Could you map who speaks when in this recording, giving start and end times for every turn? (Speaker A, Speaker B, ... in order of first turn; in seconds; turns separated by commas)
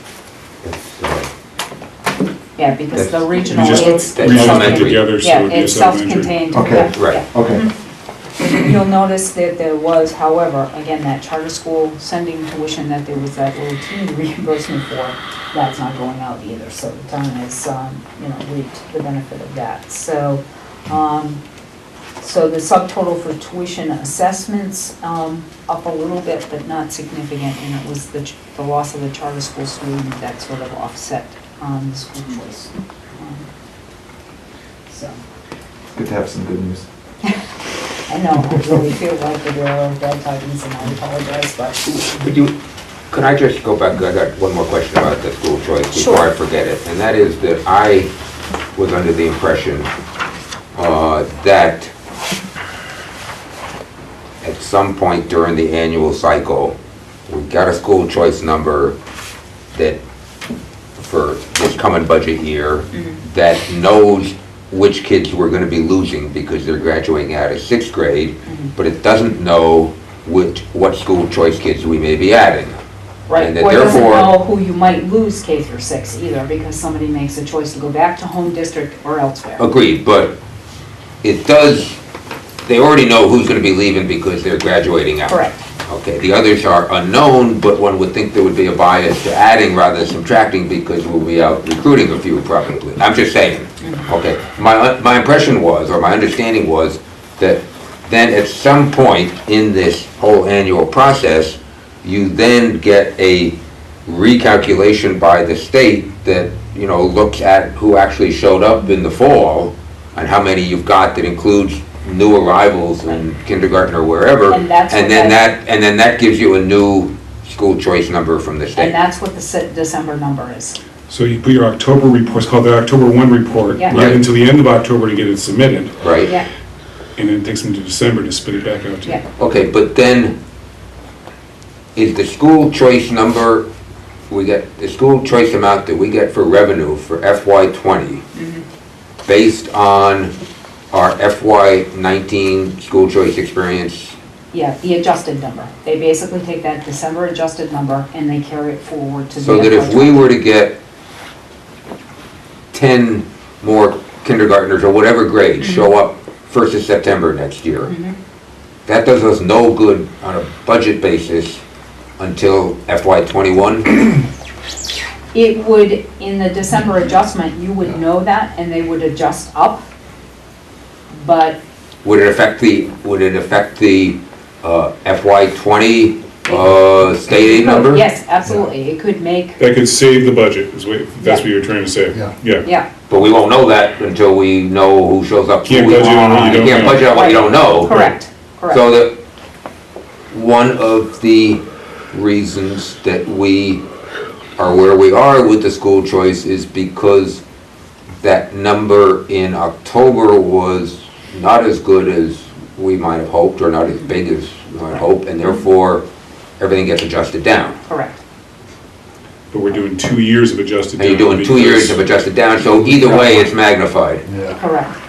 Speaker A: 0.6-1.3, Speaker B: 2.6-7.7, Speaker A: 2.9-5.0, Speaker C: 3.5-6.3, Speaker D: 6.5-7.6, Speaker A: 6.9-7.2, Speaker B: 8.4-21.4, Speaker B: 22.2-33.5, Speaker B: 34.9-35.2, Speaker D: 35.9-36.9, Speaker B: 38.1-42.0, Speaker A: 41.9-42.5, Speaker A: 43.1-48.1, Speaker B: 45.9-46.3, Speaker A: 48.8-49.9, Speaker A: 50.8-51.9, Speaker A: 54.4-56.8, Speaker A: 57.3-59.0, Speaker A: 59.7-60.0, Speaker A: 61.0-72.8, Speaker B: 62.9-63.2, Speaker B: 68.5-68.7, Speaker B: 73.3-79.7, Speaker A: 73.4-74.3, Speaker A: 79.6-80.4, Speaker A: 81.2-82.0, Speaker A: 82.7-85.4, Speaker B: 85.3-85.6, Speaker A: 85.9-119.0, Speaker B: 93.8-94.1, Speaker B: 114.5-115.4, Speaker B: 118.8-120.8, Speaker C: 121.1-126.0, Speaker B: 123.7-124.1, Speaker A: 123.9-124.2, Speaker A: 126.0-126.3, Speaker C: 127.2-129.2, Speaker A: 129.4-130.4, Speaker A: 132.0-133.7, Speaker A: 134.3-138.2, Speaker B: 138.3-138.6, Speaker A: 139.2-140.3, Speaker A: 140.9-144.2, Speaker B: 144.5-150.3, Speaker A: 149.4-150.8, Speaker A: 152.7-157.9, Speaker B: 155.6-155.9, Speaker B: 157.9-158.2, Speaker A: 158.9-161.6, Speaker A: 162.2-164.0, Speaker B: 165.3-169.8, Speaker B: 171.1-171.6, Speaker A: 172.0-178.0, Speaker B: 176.5-179.6, Speaker C: 179.6-182.7, Speaker B: 182.6-182.9, Speaker A: 183.1-188.0, Speaker C: 185.7-187.3, Speaker B: 187.1-188.8, Speaker A: 188.7-189.2, Speaker A: 190.3-193.8, Speaker A: 194.6-197.4, Speaker A: 198.2-206.1, Speaker A: 206.6-207.8, Speaker B: 207.9-208.2, Speaker C: 209.5-212.0, Speaker A: 211.0-214.2, Speaker B: 214.6-214.9